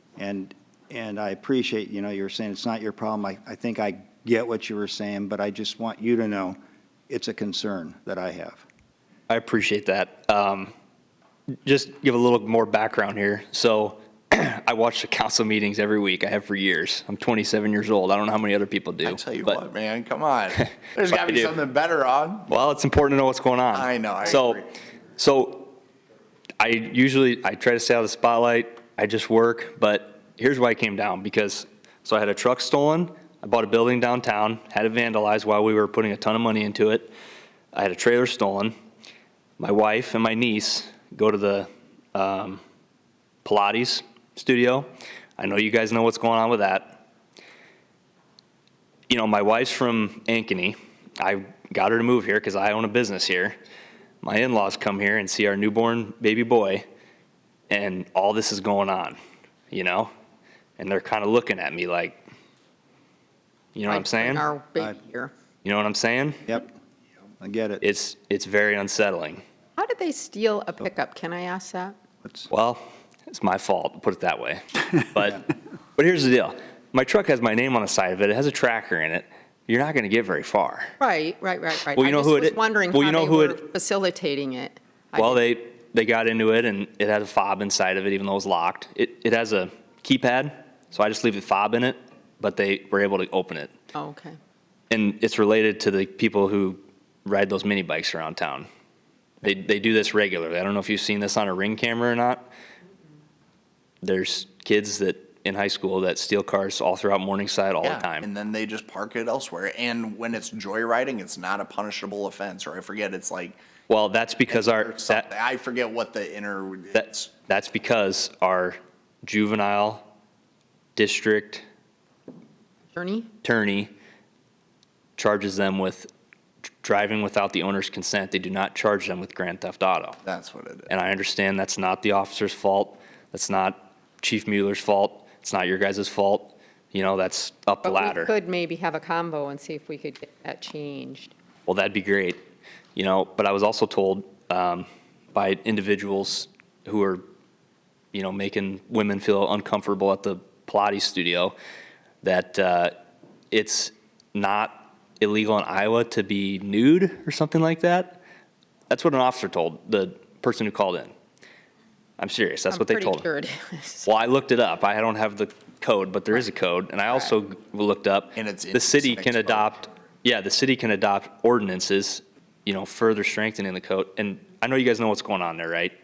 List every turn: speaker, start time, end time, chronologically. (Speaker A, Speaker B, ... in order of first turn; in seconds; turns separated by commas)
Speaker A: 0.2-6.6, Speaker A: 7.1-8.7, Speaker B: 9.3-10.7, Speaker B: 11.7-19.6, Speaker C: 19.0-22.5, Speaker B: 21.1-21.5, Speaker B: 22.5-24.6, Speaker C: 23.7-24.6, Speaker B: 25.2-25.8, Speaker B: 26.6-37.1, Speaker B: 37.7-38.7, Speaker B: 39.6-42.6, Speaker B: 43.5-47.0, Speaker B: 49.1-53.6, Speaker B: 54.2-56.9, Speaker B: 57.7-59.2, Speaker B: 59.7-60.1, Speaker B: 60.8-62.2, Speaker B: 63.8-64.5, Speaker D: 63.9-65.3, Speaker B: 65.6-66.6, Speaker A: 67.4-67.8, Speaker B: 67.8-69.4, Speaker D: 69.8-72.0, Speaker B: 72.5-75.4, Speaker B: 76.0-80.9, Speaker D: 81.0-85.4, Speaker B: 82.0-83.6, Speaker B: 85.2-93.7, Speaker D: 93.9-94.4, Speaker B: 94.9-98.7, Speaker B: 99.4-102.5, Speaker B: 104.0-108.3, Speaker C: 107.8-113.6, Speaker B: 113.9-115.3, Speaker C: 114.5-117.3, Speaker B: 117.0-120.0, Speaker B: 121.0-121.6, Speaker D: 122.9-123.3, Speaker B: 123.4-123.9, Speaker B: 125.2-126.1, Speaker B: 126.8-130.2, Speaker C: 130.2-130.9, Speaker B: 130.9-138.3, Speaker D: 137.8-141.3, Speaker B: 141.7-142.4, Speaker B: 143.0-147.2, Speaker B: 148.1-151.5, Speaker B: 152.2-152.9, Speaker B: 153.5-158.2, Speaker B: 158.9-161.1, Speaker B: 162.2-163.2, Speaker D: 162.7-164.1, Speaker B: 164.1-175.9, Speaker C: 168.4-169.8